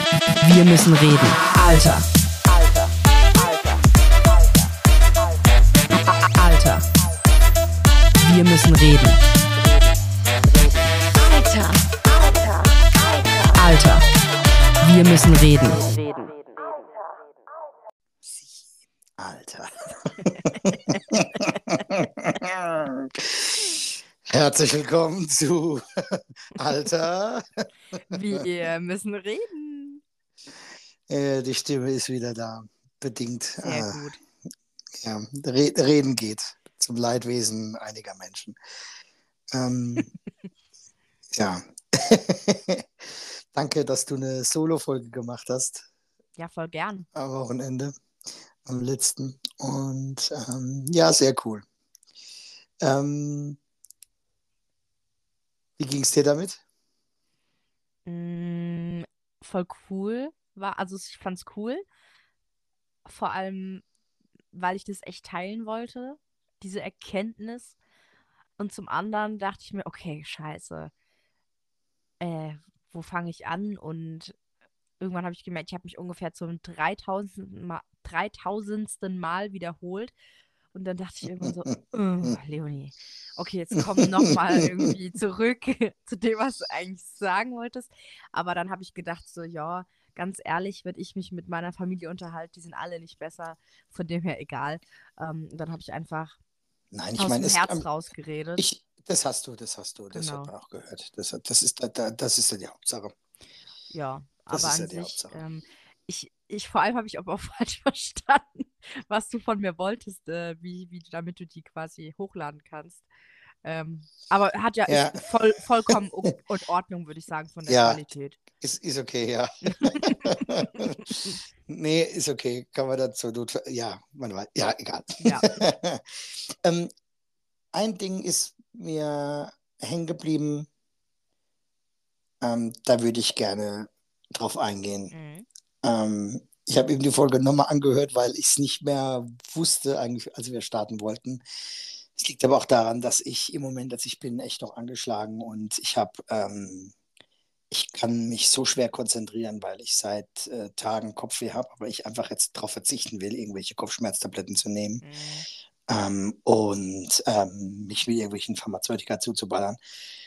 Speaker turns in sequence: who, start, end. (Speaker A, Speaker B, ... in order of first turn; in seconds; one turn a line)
Speaker A: 0.4-2.0
Speaker A: 5.9-6.8
Speaker A: 8.2-9.2
Speaker B: 11.2-13.6
Speaker A: 13.5-14.0
Speaker A: 14.8-16.0
Speaker B: 15.9-16.3
Speaker C: 19.2-28.4
Speaker A: 28.1-30.0
Speaker C: 31.1-34.0
Speaker A: 33.6-34.2
Speaker C: 35.0-38.6
Speaker C: 39.5-40.1
Speaker C: 41.3-45.8
Speaker A: 46.4-47.1
Speaker C: 47.1-47.9
Speaker C: 48.6-51.6
Speaker C: 52.8-53.6
Speaker C: 55.8-56.6
Speaker A: 58.0-61.8
Speaker A: 63.0-63.8
Speaker A: 64.5-67.8
Speaker A: 68.6-70.9
Speaker A: 72.2-74.3
Speaker A: 75.0-80.1
Speaker A: 80.7-96.4
Speaker C: 81.4-82.3
Speaker C: 83.8-84.3
Speaker C: 96.9-97.9
Speaker A: 97.2-98.7
Speaker C: 98.6-103.1
Speaker A: 100.1-100.5
Speaker A: 103.9-113.0
Speaker C: 104.5-105.4
Speaker A: 113.6-118.4
Speaker C: 114.9-115.2
Speaker C: 117.7-118.0
Speaker C: 118.6-126.9
Speaker A: 119.7-121.3
Speaker A: 125.2-125.5
Speaker C: 127.7-130.7
Speaker C: 132.4-135.1
Speaker A: 135.1-135.5
Speaker C: 135.8-141.4
Speaker C: 142.1-146.9
Speaker C: 147.7-155.0
Speaker A: 155.0-155.4
Speaker C: 155.9-159.8